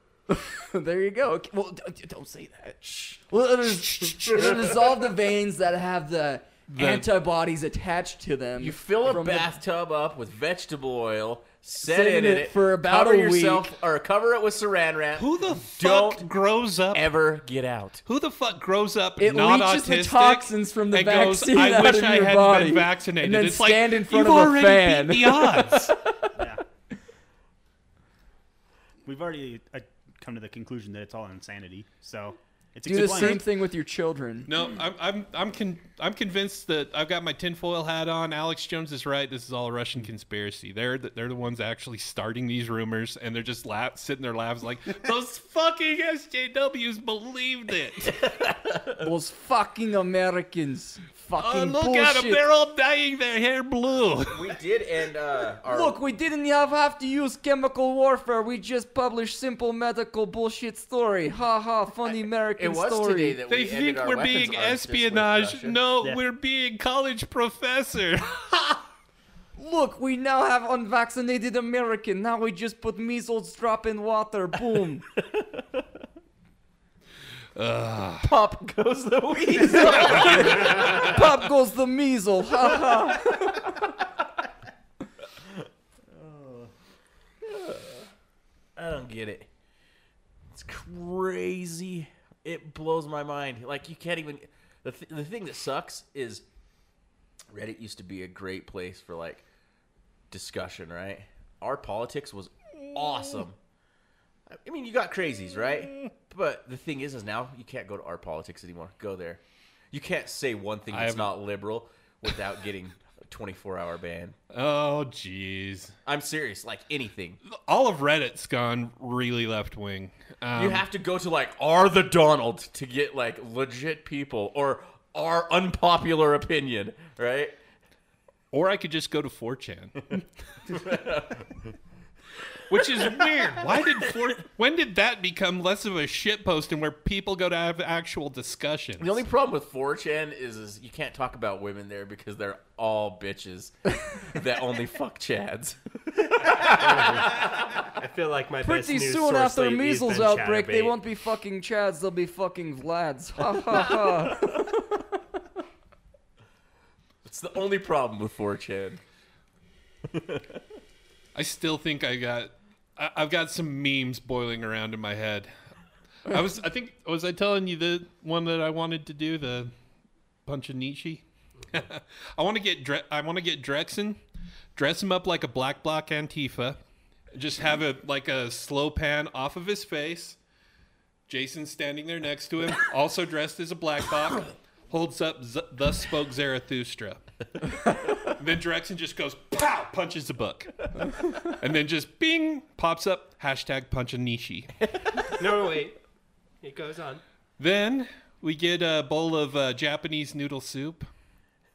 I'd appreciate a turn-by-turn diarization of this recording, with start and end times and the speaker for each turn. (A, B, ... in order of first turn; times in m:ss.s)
0:00.3-0:09.5 A
0:02.8-0:03.2 B
0:04.4-0:04.7 B
0:06.7-0:07.1 C
0:08.6-0:16.3 B
0:11.8-0:13.8 A
0:15.2-0:17.1 C
0:16.9-0:18.0 B
0:18.1-0:26.0 C
0:19.2-0:25.9 A
0:26.4-0:26.6 D
0:29.0-0:33.5 D
0:32.9-0:34.5 A
0:34.5-0:48.2 C
0:48.1-0:49.1 B
0:49.0-0:52.4 A
0:51.4-0:54.5 C
0:54.3-0:56.0 B
0:55.7-1:03.4 A
1:02.1-1:05.8 B
1:03.5-1:08.8 C
1:09.6-1:15.0 A
1:15.2-1:15.8 B
1:17.6-1:18.3 C
1:18.2-1:21.2 B
1:19.6-1:23.8 A
1:25.4-1:25.7 B
1:26.2-1:26.7 B
1:27.4-1:28.1 B
1:28.8-1:29.5 B
1:30.5-1:36.4 B
1:37.5-1:39.4 B
1:40.3-1:43.6 B
1:44.5-1:49.4 B
1:49.9-1:54.4 B
1:50.9-1:51.4 C
1:54.5-1:55.9 C
1:56.1-1:57.4 B
1:57.5-2:00.8 C
2:00.6-2:07.6 B
2:08.5-2:10.2 C
2:10.7-2:11.8 B
2:12.7-2:19.2 C
2:12.7-2:14.2 B
2:19.0-2:27.9 B
2:27.1-2:31.0 E
2:28.6-2:34.7 A
2:33.7-2:34.5 B
2:37.2-2:39.0 B
2:40.1-2:40.6 B
2:41.4-2:45.5 C
2:46.3-2:49.7 C
2:50.5-2:54.2 C
2:54.8-2:56.8 C
2:57.3-3:00.4 C
3:01.3-3:14.7 C
3:15.3-3:16.0 E
3:16.6-3:17.2 E
3:17.6-3:21.1 C